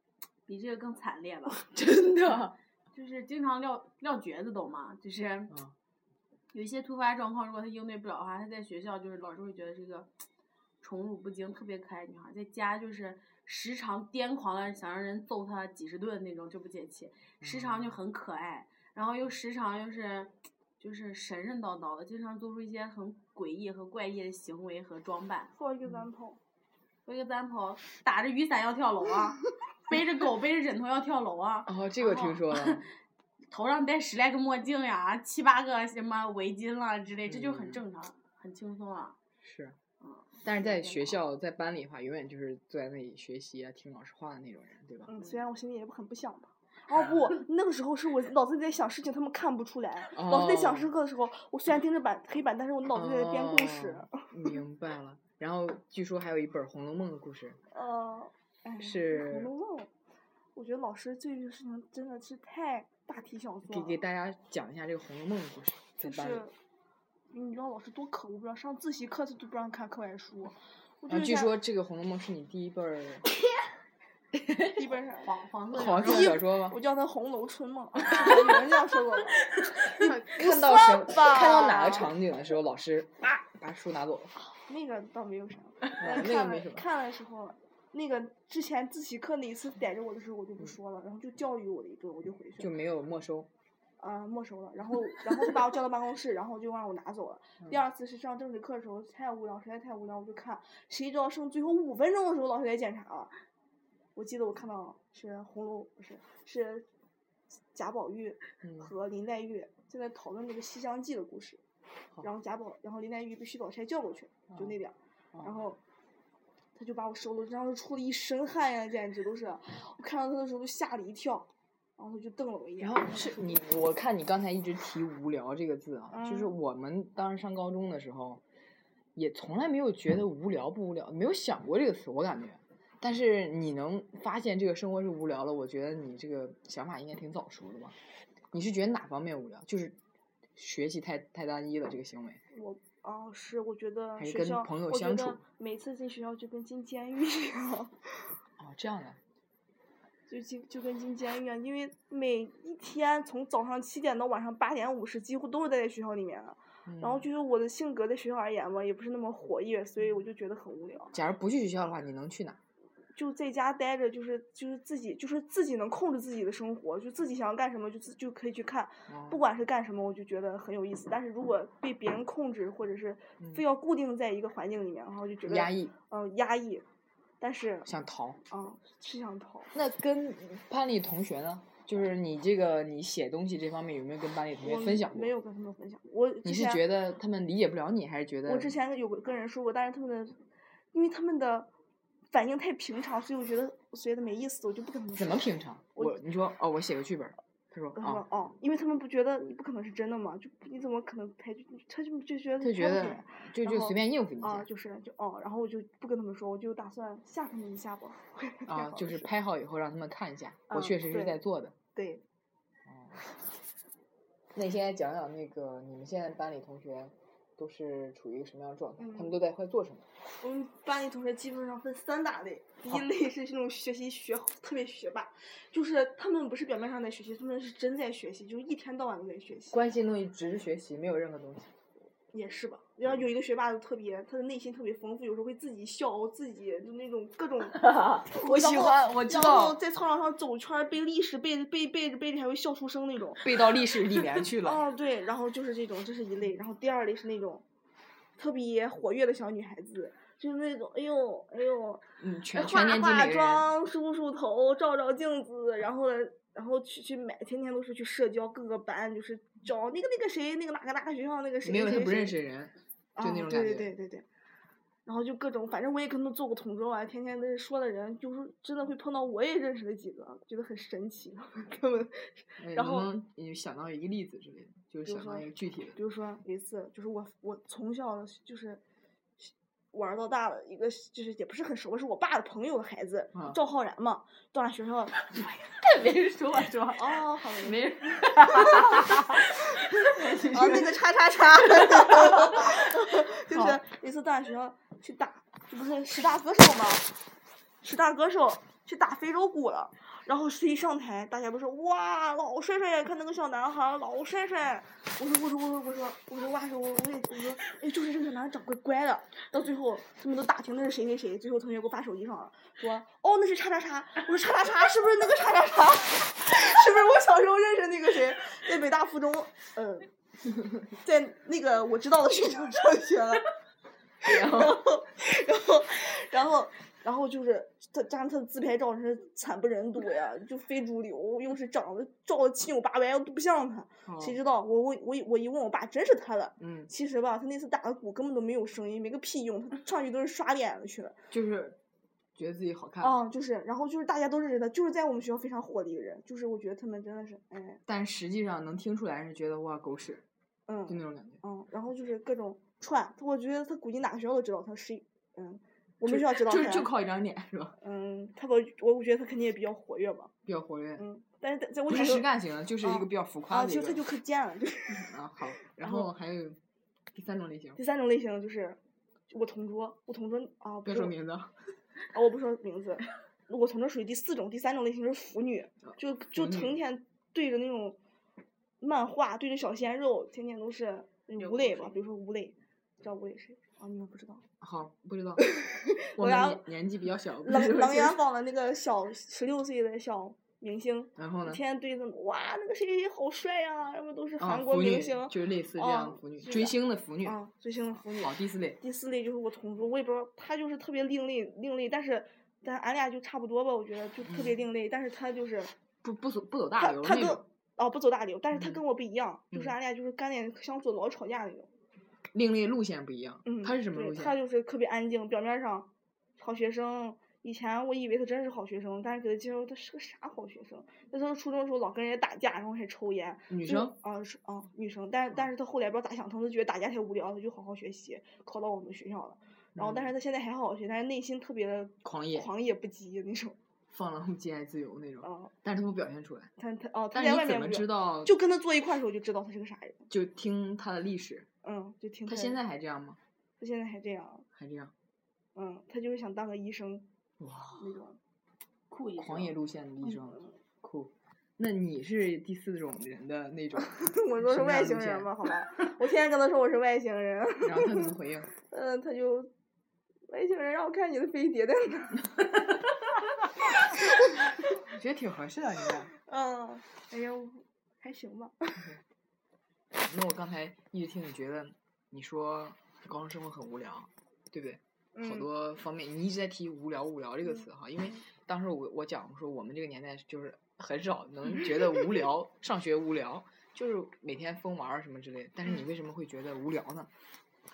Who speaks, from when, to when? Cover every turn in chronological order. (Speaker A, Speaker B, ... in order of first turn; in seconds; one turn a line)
Speaker A: 0.5-1.7
Speaker B: 1.7-2.6
Speaker A: 2.9-5.5
Speaker B: 5.5-5.8
Speaker A: 6.5-10.1
Speaker A: 10.8-25.5
Speaker B: 17.4-18.0
Speaker C: 25.5-26.4
Speaker A: 27.1-32.9
Speaker B: 31.7-32.9
Speaker A: 33.5-39.2
Speaker B: 37.3-37.8
Speaker B: 39.4-39.8
Speaker A: 40.0-40.3
Speaker B: 40.4-45.1
Speaker C: 40.6-41.0
Speaker C: 45.1-54.6
Speaker B: 50.1-50.9
Speaker B: 52.9-57.6
Speaker C: 57.7-59.9
Speaker B: 58.8-59.5
Speaker C: 60.5-64.0
Speaker B: 63.7-66.4
Speaker C: 66.0-66.5
Speaker C: 67.3-71.5
Speaker B: 71.1-73.3
Speaker B: 74.3-74.8
Speaker C: 74.8-75.3
Speaker A: 75.2-76.4
Speaker B: 75.7-76.8
Speaker C: 76.0-82.1
Speaker A: 78.1-78.4
Speaker B: 79.9-84.3
Speaker C: 84.5-92.7
Speaker B: 85.9-86.8
Speaker B: 92.6-93.5
Speaker C: 94.0-103.4
Speaker C: 104.2-106.9
Speaker C: 107.7-111.6
Speaker C: 112.2-115.8
Speaker C: 116.8-123.6
Speaker B: 122.8-128.4
Speaker C: 126.1-126.5
Speaker B: 129.2-138.0
Speaker B: 138.5-140.0
Speaker B: 140.6-142.4
Speaker C: 142.5-148.3
Speaker B: 144.2-145.4
Speaker B: 148.6-149.2
Speaker C: 150.3-161.1
Speaker B: 156.9-157.3
Speaker B: 161.1-162.6
Speaker C: 163.2-176.8
Speaker B: 169.1-169.4
Speaker B: 175.4-175.9
Speaker C: 177.4-177.9
Speaker B: 177.9-178.4
Speaker C: 178.5-179.7
Speaker B: 179.7-185.3
Speaker C: 184.6-186.8
Speaker B: 186.4-188.7
Speaker C: 188.4-191.7
Speaker C: 192.3-196.2
Speaker B: 195.2-198.2
Speaker C: 198.0-209.3
Speaker B: 202.6-204.7
Speaker B: 208.7-211.8
Speaker C: 210.7-211.4
Speaker C: 211.9-212.2
Speaker B: 212.9-213.2
Speaker B: 214.5-220.1
Speaker C: 219.0-219.4
Speaker C: 220.4-229.8
Speaker B: 229.7-231.7
Speaker C: 232.3-243.6
Speaker B: 237.8-239.8
Speaker B: 243.4-244.8
Speaker C: 244.1-247.6
Speaker C: 248.4-262.4
Speaker B: 252.2-253.7
Speaker B: 261.6-263.9
Speaker C: 263.2-264.3
Speaker C: 265.1-273.1
Speaker B: 272.6-276.0
Speaker C: 275.1-278.8
Speaker C: 279.4-285.2
Speaker A: 285.4-290.9
Speaker C: 286.9-288.9
Speaker B: 288.7-289.0
Speaker C: 290.4-297.2
Speaker B: 293.5-293.8
Speaker C: 297.8-320.1
Speaker C: 320.9-323.5
Speaker B: 324.2-324.8
Speaker C: 324.2-341.2
Speaker B: 334.1-334.4
Speaker B: 336.6-336.9
Speaker B: 341.3-341.8
Speaker B: 342.4-343.1
Speaker C: 343.0-347.8
Speaker B: 347.9-350.2
Speaker C: 350.7-356.9
Speaker B: 350.9-351.4
Speaker B: 356.0-357.8
Speaker C: 357.8-360.3
Speaker B: 360.5-361.1
Speaker C: 361.0-362.3
Speaker B: 361.9-364.0
Speaker C: 362.8-365.1
Speaker B: 364.9-366.6
Speaker C: 365.7-366.1
Speaker B: 367.1-367.8
Speaker C: 367.8-371.1
Speaker B: 370.9-371.6
Speaker C: 372.1-378.0
Speaker B: 376.4-376.8
Speaker C: 378.8-384.4
Speaker A: 381.4-382.0
Speaker B: 384.6-385.5
Speaker C: 385.4-386.6
Speaker B: 386.1-388.2
Speaker C: 387.4-405.7
Speaker B: 391.2-391.6
Speaker B: 394.4-397.4
Speaker B: 398.1-398.8
Speaker B: 404.3-404.6
Speaker B: 406.0-407.4
Speaker C: 406.8-411.7
Speaker B: 408.5-408.8
Speaker B: 412.3-414.4
Speaker C: 413.4-433.6
Speaker B: 423.5-423.9
Speaker B: 429.8-430.1
Speaker B: 432.0-432.5
Speaker B: 433.9-436.5
Speaker C: 435.2-435.5
Speaker C: 436.6-440.1
Speaker B: 437.1-438.3
Speaker B: 440.1-441.5
Speaker C: 441.6-442.6
Speaker B: 442.3-443.2
Speaker C: 443.6-444.5
Speaker B: 444.6-444.9
Speaker C: 445.6-447.1
Speaker B: 447.4-447.9
Speaker C: 447.8-448.2
Speaker A: 448.9-449.5
Speaker B: 449.2-455.3
Speaker C: 454.0-459.5
Speaker B: 457.6-458.5
Speaker C: 460.3-462.3
Speaker B: 464.8-466.1
Speaker C: 466.1-468.9
Speaker B: 469.9-487.1
Speaker C: 475.1-475.5